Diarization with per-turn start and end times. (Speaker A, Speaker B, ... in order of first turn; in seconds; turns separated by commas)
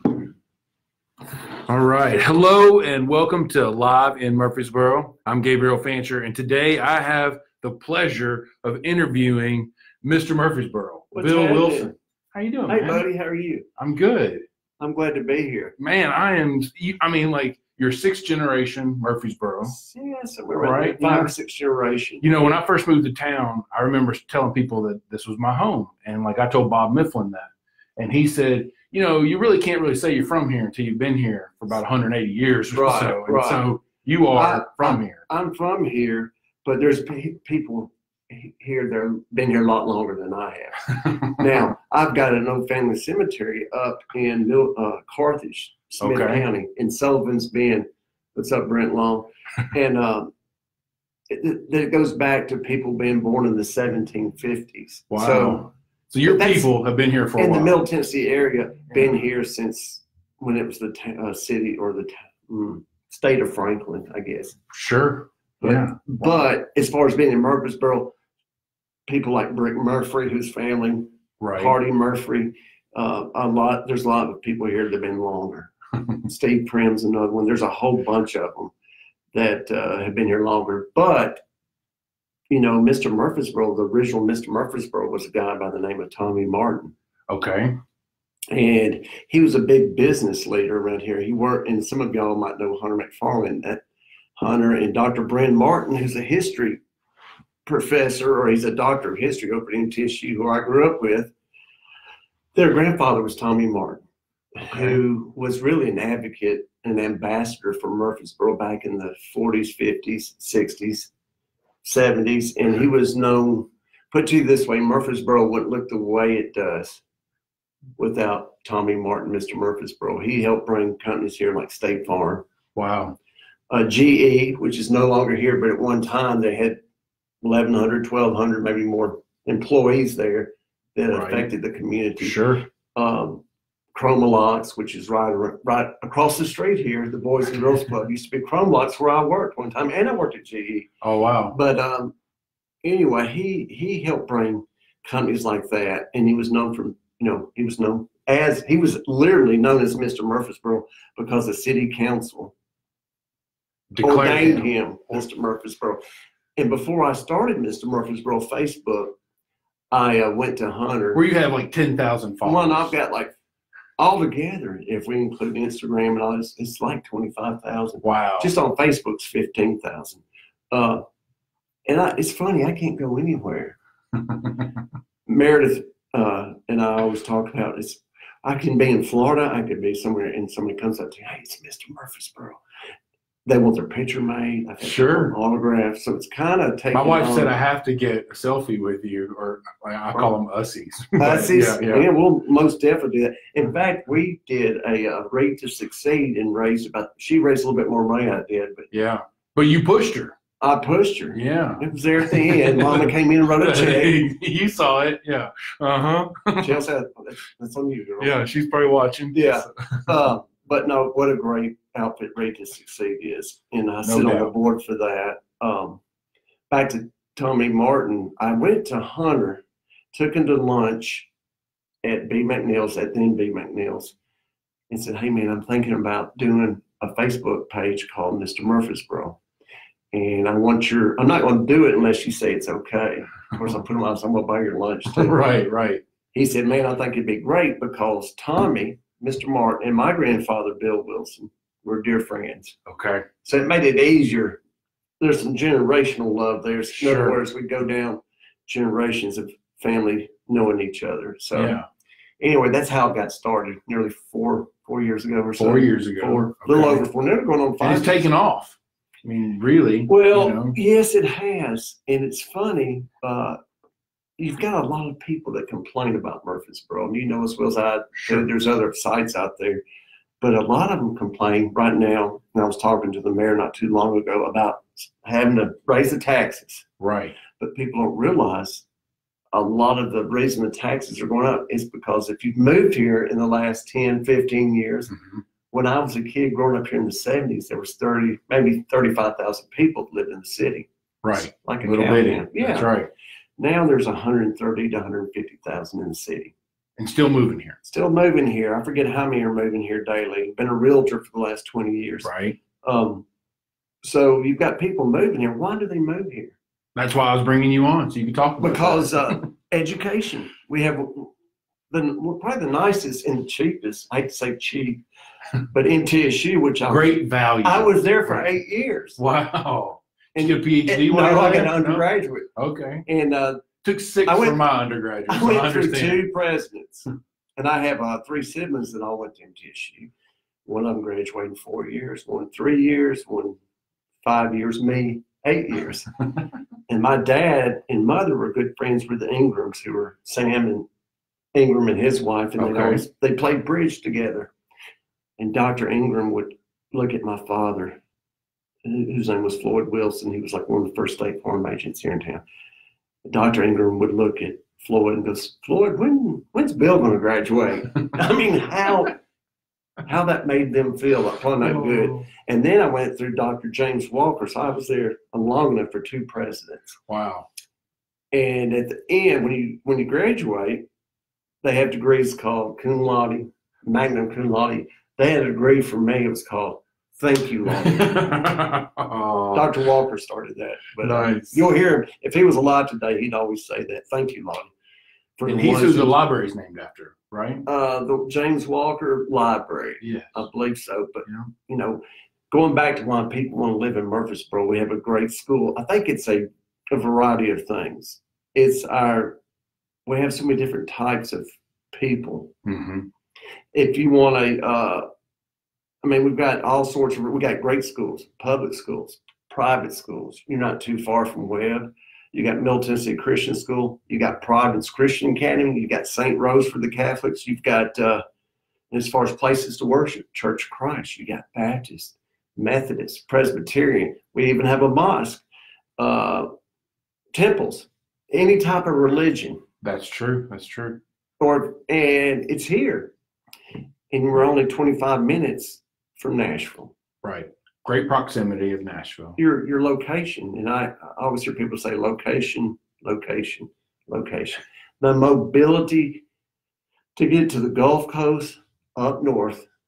Speaker A: 1.6-13.0, Speaker B: 11.1-11.9, Speaker B: 12.7-13.7, Speaker A: 13.8-14.4, Speaker B: 14.8-15.7, Speaker A: 15.8-19.8, Speaker B: 19.7-22.2, Speaker A: 20.6-21.3, Speaker A: 22.2-35.2, Speaker B: 32.7-33.6, Speaker B: 34.3-50.3, Speaker A: 41.0-41.3, Speaker A: 46.0-46.4, Speaker B: 51.3-55.6, Speaker A: 55.1-57.8, Speaker B: 56.2-56.7, Speaker B: 57.4-64.6, Speaker A: 64.7-66.0, Speaker B: 65.6-68.1, Speaker B: 69.1-75.7, Speaker A: 71.4-71.8, Speaker B: 76.3-78.7, Speaker B: 79.3-81.4, Speaker B: 82.5-86.9, Speaker A: 87.3-87.7, Speaker B: 88.5-93.8, Speaker B: 94.4-96.8, Speaker B: 97.7-101.3, Speaker B: 102.5-104.0, Speaker B: 104.5-111.1, Speaker A: 104.7-105.0, Speaker B: 111.8-117.0, Speaker B: 118.0-122.5, Speaker A: 122.7-123.2, Speaker B: 123.7-126.8, Speaker B: 127.4-132.4, Speaker A: 131.1-131.5, Speaker A: 132.2-132.6, Speaker B: 132.9-133.4, Speaker B: 133.9-140.9, Speaker A: 141.0-141.6, Speaker B: 141.5-142.1, Speaker B: 142.8-152.5, Speaker A: 153.9-154.7, Speaker B: 154.0-156.0, Speaker B: 156.6-159.1, Speaker B: 159.9-161.2, Speaker A: 161.1-162.9, Speaker B: 162.4-163.3, Speaker B: 164.0-171.0, Speaker A: 168.0-168.5, Speaker B: 171.8-173.8, Speaker B: 175.2-182.6, Speaker B: 183.4-187.5, Speaker A: 184.8-185.4, Speaker A: 186.9-192.1, Speaker B: 191.2-198.9, Speaker A: 198.9-200.3, Speaker B: 200.6-204.2, Speaker A: 201.3-206.7, Speaker B: 206.6-208.4, Speaker A: 208.2-210.1, Speaker B: 209.3-216.0, Speaker A: 214.0-214.5, Speaker B: 216.7-219.6, Speaker B: 220.1-221.3, Speaker B: 222.0-224.1, Speaker B: 224.9-229.4, Speaker B: 230.1-235.4, Speaker A: 235.1-236.0, Speaker B: 236.3-242.8, Speaker A: 242.9-243.3, Speaker B: 243.4-244.6, Speaker B: 245.2-251.8, Speaker A: 246.9-247.4, Speaker A: 251.5-251.8, Speaker B: 252.4-258.3, Speaker A: 255.6-257.1, Speaker A: 257.8-260.8, Speaker B: 260.1-263.6, Speaker B: 264.4-269.8, Speaker A: 268.2-268.4, Speaker B: 270.4-276.9, Speaker A: 277.0-277.4, Speaker B: 277.5-278.8, Speaker B: 279.5-285.1, Speaker A: 285.1-285.4, Speaker B: 285.7-290.9, Speaker A: 291.2-293.1, Speaker B: 291.5-292.9, Speaker B: 293.6-296.5, Speaker A: 297.0-297.8, Speaker B: 297.8-302.3, Speaker A: 302.2-302.6, Speaker B: 302.8-303.2, Speaker B: 304.0-306.6, Speaker A: 306.9-309.4, Speaker B: 308.6-311.3, Speaker B: 311.9-315.0, Speaker B: 315.7-319.2, Speaker A: 316.9-318.5, Speaker A: 319.2-323.0, Speaker B: 320.3-322.5, Speaker B: 323.1-323.6, Speaker A: 323.8-326.2, Speaker B: 324.2-324.6, Speaker B: 325.3-330.1, Speaker B: 330.6-333.6, Speaker B: 334.2-336.1, Speaker B: 336.9-340.9, Speaker B: 341.5-344.5, Speaker A: 342.6-343.0, Speaker B: 345.4-348.0, Speaker B: 348.8-352.4, Speaker B: 353.3-359.2, Speaker B: 360.0-367.0, Speaker A: 361.6-362.3, Speaker A: 367.1-367.5, Speaker B: 368.3-370.8, Speaker B: 371.6-378.2, Speaker A: 377.8-379.7, Speaker B: 379.5-384.7, Speaker A: 381.0-381.6, Speaker B: 385.4-386.1, Speaker A: 385.4-387.6, Speaker B: 387.6-399.4, Speaker A: 390.0-390.4, Speaker B: 400.1-402.5, Speaker A: 402.6-403.1, Speaker B: 403.7-405.0, Speaker B: 406.0-418.2, Speaker B: 418.9-425.4, Speaker B: 426.0-426.5, Speaker B: 427.3-429.6, Speaker A: 429.8-431.0, Speaker B: 431.4-433.1, Speaker B: 434.1-436.9, Speaker A: 437.2-439.4, Speaker B: 439.4-446.2, Speaker B: 447.1-449.7